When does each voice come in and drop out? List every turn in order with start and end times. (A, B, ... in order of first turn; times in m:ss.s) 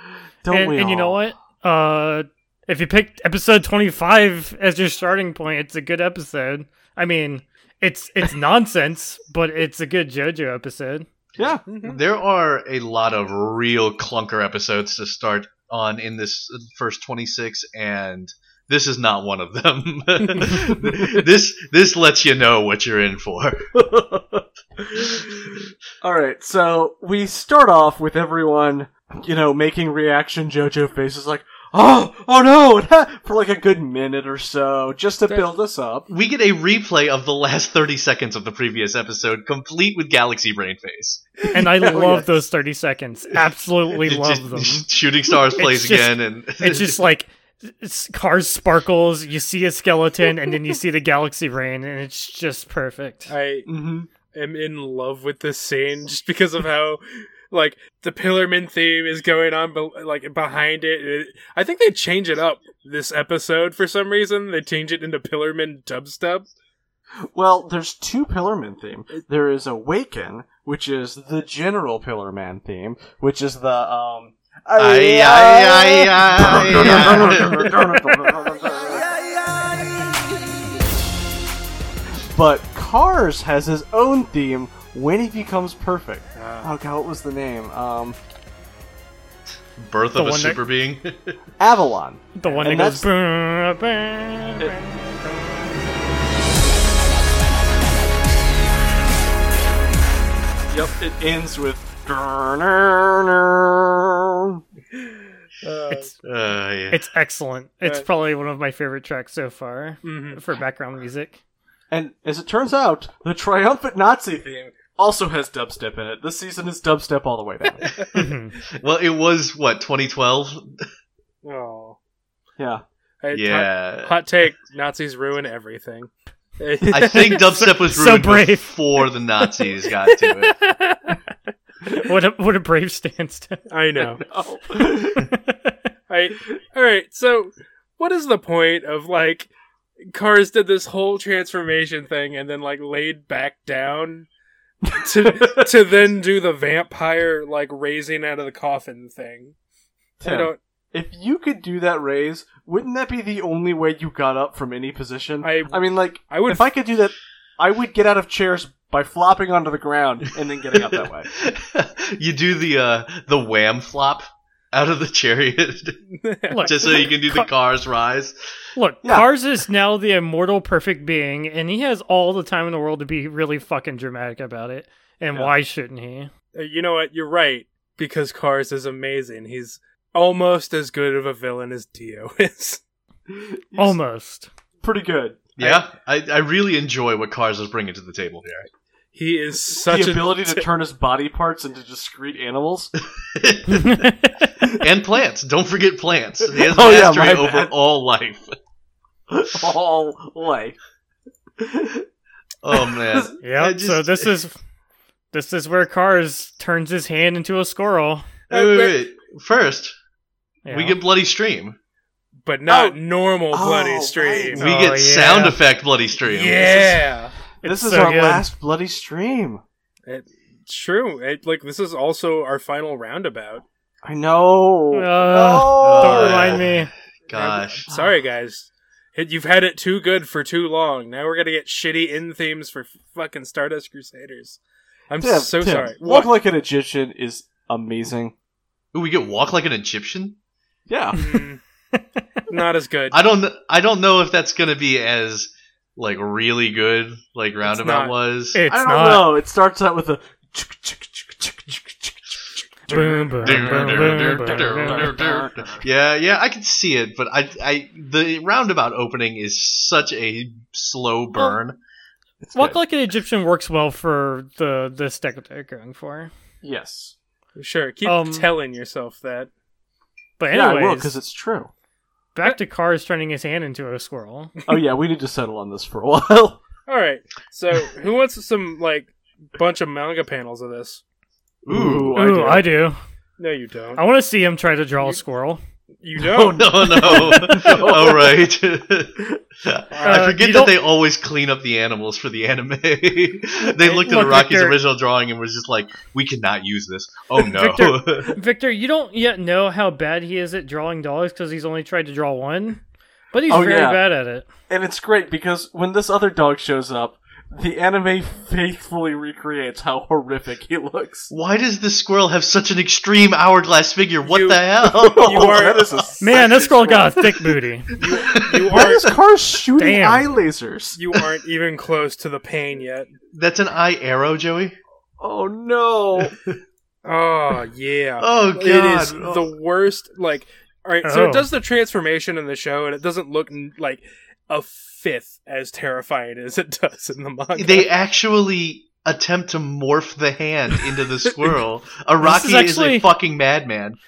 0:00.4-0:01.2 A
0:00.5-0:11.0 B
0:11.4-0:11.6 A
0:11.6-0:12.0 C
0:11.8-0:23.7 D
0:20.7-0:21.2 A
0:23.7-0:36.1 A
0:36.1-0:41.2 D
0:41.4-0:42.3 A
0:41.5-0:44.8 B
0:44.0-0:47.0 D
0:45.5-0:53.3 B
0:53.3-0:53.7 C
0:53.7-0:54.1 A
0:54.2-1:06.5 C
1:07.2-1:19.0 A
1:14.7-1:17.7 D
1:16.8-1:17.2 C
1:22.3-1:28.2 A
1:26.3-1:26.7 C
1:29.8-1:31.4 D
1:30.1-1:30.6 B
1:31.6-1:33.1 A
1:32.4-1:34.8 B
1:32.4-1:32.8 C
1:40.7-1:44.6 A
1:45.6-1:46.1 C
1:46.2-1:47.0 D
1:46.9-1:51.4 B
1:50.0-1:50.4 C
1:51.9-1:57.9 A
1:57.9-2:00.8 D
1:58.1-1:58.6 B
2:01.4-2:02.0 C
2:02.6-2:02.8 A
2:03.2-2:07.6 C
2:03.3-2:04.1 D
2:06.9-2:10.6 D
2:07.1-2:08.7 B
2:10.4-2:11.2 B
2:11.9-2:13.6 B
2:13.7-2:14.2 C
2:14.2-2:15.3 A
2:15.2-2:15.8 B
2:16.1-2:19.5 C
2:20.0-2:24.3 C
2:24.8-2:25.7 A
2:24.8-2:29.5 C
2:30.2-2:30.6 C
2:30.2-2:41.3 A
2:35.4-2:36.7 C
2:40.7-2:46.0 D
2:46.1-2:47.0 C
2:46.5-2:47.5 B
2:46.6-2:48.3 D
2:48.8-2:56.3 B
2:56.5-3:02.8 C
3:03.3-3:04.0 A
3:03.8-3:04.5 B
3:04.8-3:05.4 A
3:05.6-3:08.7 D
3:05.6-3:05.8 C
3:09.1-3:10.6 C
3:09.8-3:12.9 A
3:13.2-3:14.1 D
3:13.7-3:14.5 B
3:14.6-3:18.5 D
3:16.6-3:17.7 A
3:19.3-3:20.8 A
3:21.6-3:22.0 A
3:22.6-3:24.3 D
3:22.7-3:23.3 A
3:23.4-3:24.5 B
3:25.3-3:28.3 B
3:28.5-3:30.0 D
3:28.5-3:29.0 C
3:30.6-3:31.0 B
3:30.7-3:31.8 D
3:32.4-3:35.0 C
3:32.7-3:33.0 A
3:33.5-3:34.6 A
3:34.5-3:37.0 D
3:34.6-3:35.6 B
3:36.2-3:37.3 C
3:37.6-3:38.4 B
3:37.6-3:39.6 A
3:40.0-3:43.6 C
3:44.0-3:46.6 A
3:44.9-3:46.9 B
3:45.8-3:47.8 D
3:47.3-3:54.6 C
3:55.1-3:56.3 C
3:55.2-3:58.3 A
3:58.9-4:00.4 D
4:00.9-4:01.2 A
4:01.1-4:01.6 C
4:02.5-4:03.2 C
4:03.1-4:08.6 D
4:07.7-4:08.2 C
4:08.5-4:09.3 B
4:08.7-4:15.9 A
4:12.9-4:15.1 B
4:13.4-4:21.8 D
4:22.4-4:22.8 A
4:22.5-4:26.3 B
4:26.6-4:27.1 A
4:27.6-4:29.5 C
4:28.0-4:28.5 B
4:30.4-4:31.1 B
4:30.5-4:31.7 A
4:32.3-4:34.5 B
4:34.7-4:36.6 A
4:36.9-4:41.0 C
4:41.6-4:42.2 D
4:41.7-4:42.7 A
4:42.1-4:43.0 B
4:43.4-4:44.0 C
4:44.0-4:45.6 B
4:46.0-4:46.7 C
4:46.3-4:48.4 A
4:46.4-4:58.4 D
4:47.1-4:47.6 B
4:49.9-4:50.3 C
4:50.0-4:50.7 B
4:53.8-4:54.8 B
4:57.4-5:02.8 B
5:03.3-5:04.5 B
5:03.5-5:04.0 A
5:04.7-5:11.3 A
5:11.3-5:15.6 D
5:14.2-5:16.4 C
5:14.9-5:17.6 A
5:16.2-5:17.9 B
5:18.0-5:19.1 C
5:18.2-5:19.1 D
5:18.7-5:21.0 A
5:19.8-5:20.3 B
5:20.9-5:23.1 C
5:23.3-5:24.8 D
5:25.2-5:26.3 A
5:26.2-5:26.5 D
5:27.0-5:37.9 C
5:28.2-5:29.5 D
5:31.0-5:31.5 B
5:37.5-5:44.0 D
5:42.2-5:43.1 B